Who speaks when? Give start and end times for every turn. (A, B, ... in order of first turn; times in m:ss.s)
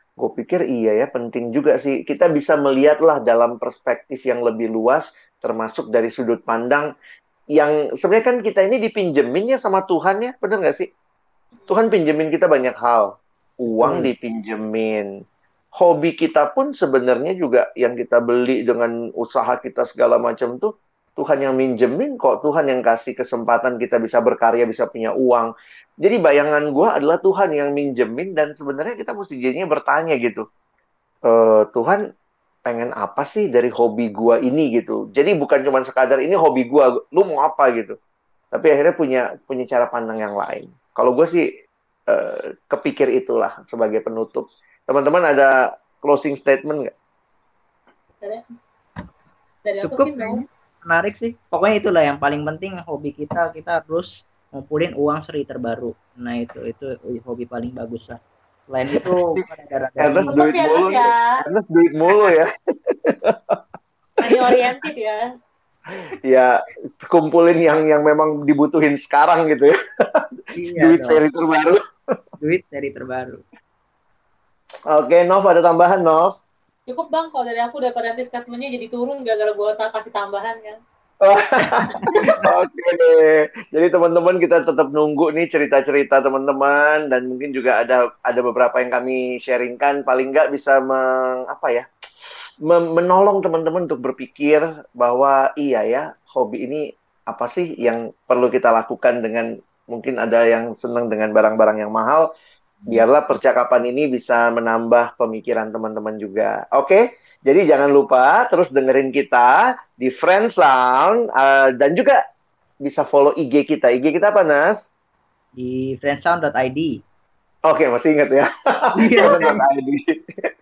0:00.2-0:06.9 A
0:07.6-0:10.9 A
0:11.7-0:13.1 A
0:13.6-0:15.1 A
0:13.8-0:14.1 B
0:15.8-0:25.5 A
0:26.0-0:30.5 A
0:31.3-0:32.0 A
0:32.7-0:38.0 A
0:38.5-0:41.4 A
0:42.1-0:46.9 A
0:49.6-0:50.4 C
0:49.8-1:00.4 B
0:58.9-0:59.4 A
1:00.0-1:03.6 A
1:00.3-1:01.4 C
1:04.2-1:05.2 C
1:06.2-1:11.8 A
1:10.6-1:11.2 B
1:12.4-1:13.4 B
1:14.9-1:16.4 A
1:16.9-1:20.8 C
1:21.2-1:31.9 A
1:21.8-1:22.5 B
1:22.1-1:22.4 C
1:32.7-1:42.3 A
1:42.9-1:52.2 A
1:52.8-1:54.9 A
1:55.6-1:57.0 B
1:57.7-2:00.0 A
1:59.0-1:59.6 B